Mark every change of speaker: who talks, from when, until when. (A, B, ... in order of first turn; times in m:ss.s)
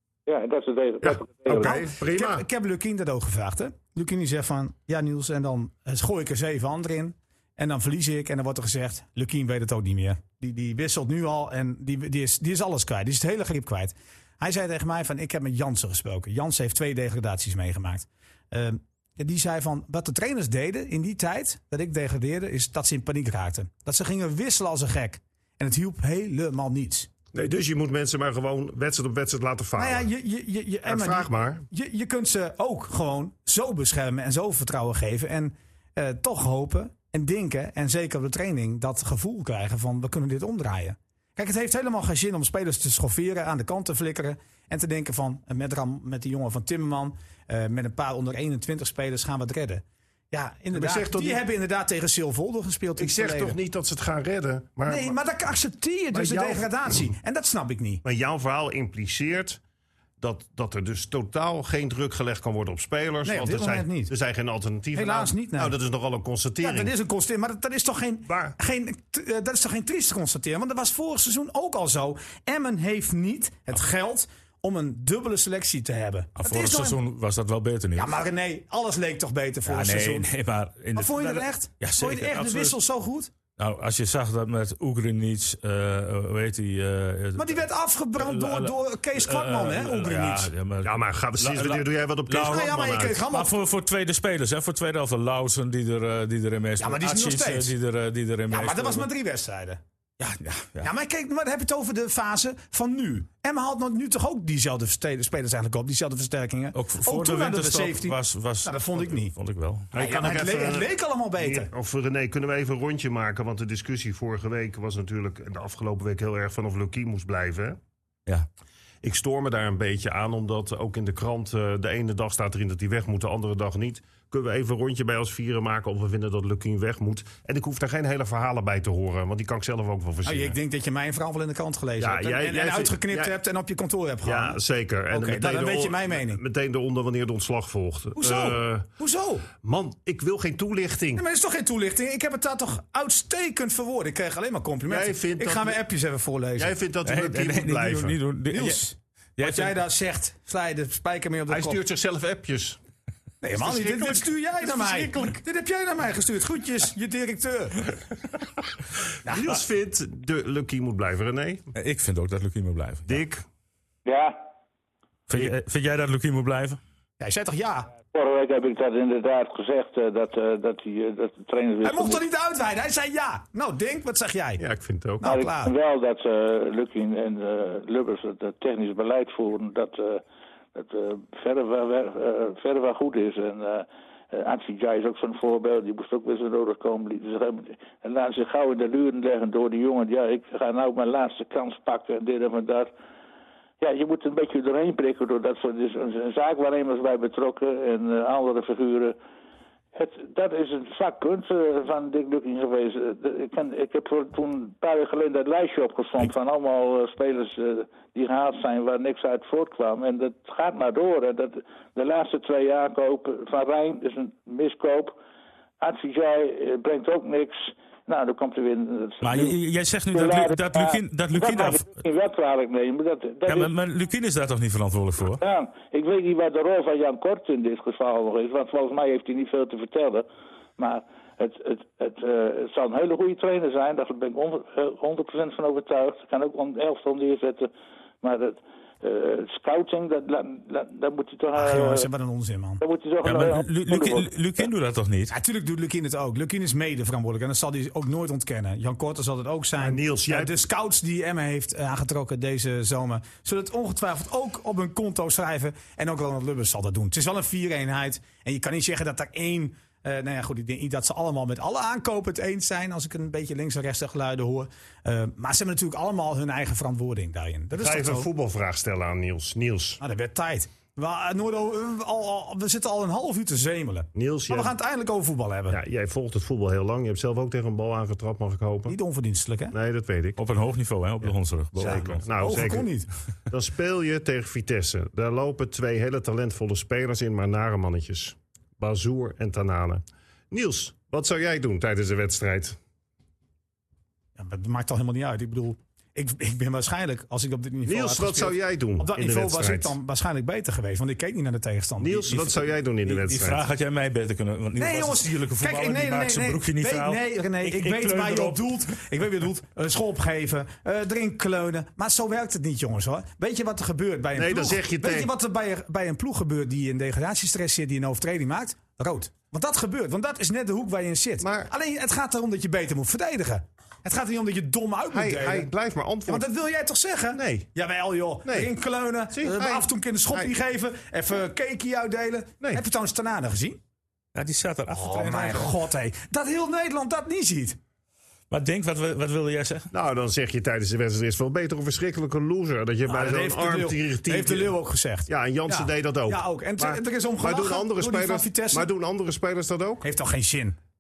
0:00.3-0:01.8 A
0:01.0-0:02.4 B
0:01.5-0:27.1 C
0:27.3-0:30.1 B
0:29.8-0:53.6 C
0:30.9-0:31.7 B
0:50.7-0:51.4 B
0:53.0-0:55.1 B
0:54.9-0:58.0 C
0:56.1-0:57.0 B
0:58.0-0:59.6 B
1:00.2-1:06.9 B
1:03.2-1:04.1 C
1:04.9-1:05.8 C
1:06.6-1:17.0 C
1:08.3-1:08.5 B
1:16.4-1:18.2 D
1:18.0-1:20.3 C
1:19.7-1:22.8 D
1:20.9-1:23.3 C
1:23.6-1:27.6 D
1:27.4-1:30.5 C
1:28.2-1:32.7 D
1:30.8-1:33.2 B
1:32.3-1:33.6 C
1:33.2-1:39.1 D
1:36.8-1:37.7 C
1:38.5-1:39.8 C
1:40.2-1:40.9 D
1:40.8-1:49.3 C
1:46.8-1:49.9 D
1:49.9-1:51.7 C
1:49.9-1:57.8 B
1:59.0-2:10.6 B
2:10.2-2:14.6 C
2:12.0-2:13.4 B
2:14.2-2:18.9 B
2:15.1-2:16.4 C
2:18.2-2:19.5 C
2:19.6-2:21.2 B
2:21.2-2:26.8 C
2:24.9-2:25.8 B
2:26.6-2:28.2 B
2:27.0-2:28.9 D
2:28.5-2:31.8 C
2:31.5-2:32.8 B
2:33.4-2:37.9 C
2:33.5-2:35.4 B
2:39.3-2:39.6 C
2:39.3-2:41.7 B
2:41.8-2:43.2 D
2:43.1-2:43.4 B
2:44.1-2:44.4 A
2:45.3-2:46.8 D
2:47.2-2:47.9 C
2:48.1-2:52.2 A
2:51.8-2:54.6 C
2:54.6-2:55.2 B
2:55.2-2:55.7 C
2:55.2-3:00.2 A
3:00.8-3:12.9 A
3:13.8-3:19.2 A
3:20.0-3:35.2 A
3:35.8-3:39.6 A
3:39.2-3:41.9 D
3:40.1-3:43.7 A
3:43.5-3:45.4 D
3:45.4-3:50.3 A
3:50.8-3:57.7 A
3:58.2-4:02.1 A
4:01.6-4:02.8 C
4:02.8-4:04.3 A
4:03.2-4:05.3 D
4:05.3-4:28.3 C
4:09.8-4:10.5 B
4:27.7-4:30.0 B
4:30.0-4:35.8 C
4:34.2-4:34.7 B
4:35.7-4:39.0 B
4:38.9-4:39.8 C
4:39.7-4:40.4 B
4:40.4-4:42.3 D
4:41.2-4:42.9 B
4:41.9-4:43.1 C
4:43.5-4:52.8 B
4:54.4-5:02.6 C
4:57.9-4:59.9 B
5:02.0-5:03.6 B
5:03.0-5:08.7 D
5:04.8-5:25.7 C
5:14.4-5:15.3 B
5:21.4-5:21.7 B
5:25.1-5:26.5 B
5:26.3-5:33.8 C
5:27.3-5:27.7 B
5:29.3-5:30.5 B
5:34.4-5:35.7 D
5:34.9-5:37.8 C
5:38.5-5:39.9 D
5:39.9-5:44.7 B
5:43.1-5:48.9 C
5:45.3-5:50.1 B
5:50.0-5:50.8 C